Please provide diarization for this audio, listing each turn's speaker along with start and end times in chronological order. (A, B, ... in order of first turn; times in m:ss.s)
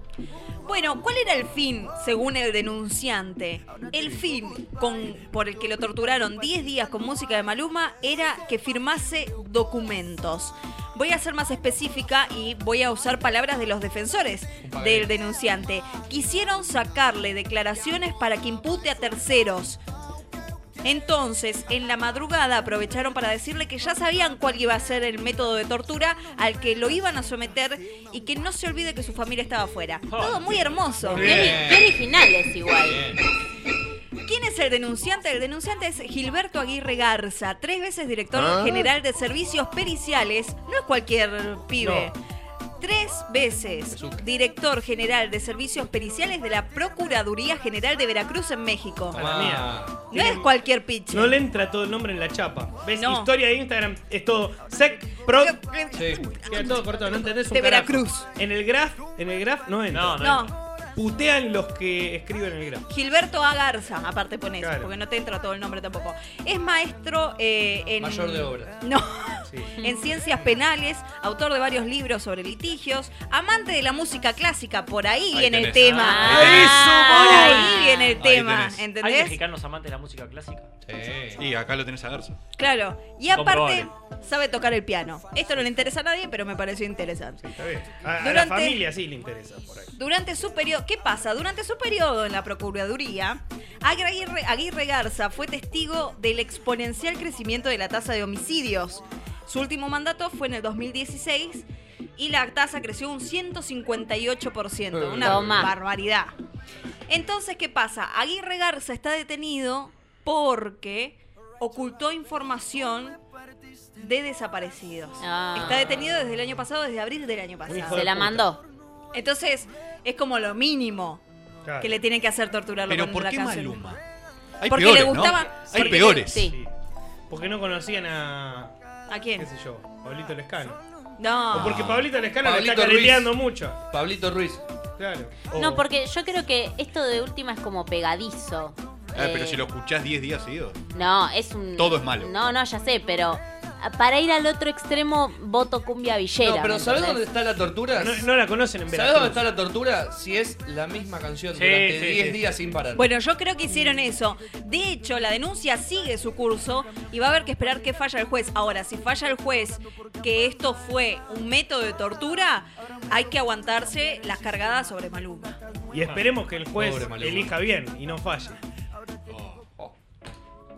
0:00.6-0:19.8 A
0:14.6-0:15.1 B
0:20.8-0:31.6 A
0:30.1-0:30.9 C
0:31.1-0:32.0 B
0:31.2-0:33.0 D
0:32.8-0:33.2 B
0:34.2-0:42.2 A
0:41.8-0:42.1 E
0:42.8-0:49.2 A
0:43.9-0:44.2 B
0:49.1-0:50.4 E
0:49.1-0:50.0 B
0:50.1-0:51.4 A
0:51.1-0:55.6 E
0:52.9-0:53.3 A
0:55.3-0:58.3 A
0:55.9-0:56.2 B
0:56.5-1:00.4 E
0:59.9-1:00.5 C
1:00.2-1:00.5 A
1:00.9-1:02.8 E
1:02.9-1:19.4 A
1:04.6-1:04.9 E
1:08.0-1:08.7 B
1:09.5-1:09.7 E
1:15.3-1:16.8 F
1:15.9-1:18.2 D
1:16.2-1:17.1 B
1:16.4-1:16.9 E
1:18.2-1:18.8 F
1:19.0-1:20.7 C
1:20.8-1:21.4 B
1:21.4-1:22.4 F
1:22.6-1:27.4 A
1:23.3-1:23.9 C
1:27.4-1:29.9 E
1:28.2-1:28.8 A
1:30.0-1:41.6 A
1:42.2-1:46.3 A
1:44.9-1:45.6 B
1:45.2-1:45.7 D
1:47.1-1:53.2 A
1:54.0-1:58.1 A
1:55.2-1:56.0 D
1:57.7-1:58.5 E
1:57.9-1:58.6 D
1:59.1-2:01.2 A
2:01.6-2:01.9 E
2:01.8-2:03.8 A
2:02.9-2:04.0 F
2:04.6-2:06.5 F
2:04.6-2:06.4 A
2:06.2-2:06.6 D
2:06.3-2:06.7 E
2:07.3-2:08.7 E
2:09.1-2:09.5 A
2:09.4-2:10.8 E
2:11.2-2:11.9 A
2:11.5-2:13.8 E
2:12.4-2:13.3 B
2:13.9-2:14.6 B
2:15.0-2:15.8 E
2:15.5-2:19.6 D
2:19.2-2:20.8 F
2:20.9-2:27.2 D
2:21.8-2:22.3 F
2:26.4-2:28.3 B
2:27.9-2:29.4 E
2:28.9-2:33.0 B
2:31.5-2:32.4 C
2:32.9-2:45.6 A
2:45.9-2:48.6 E
2:46.8-2:47.5 B
2:49.3-2:49.9 B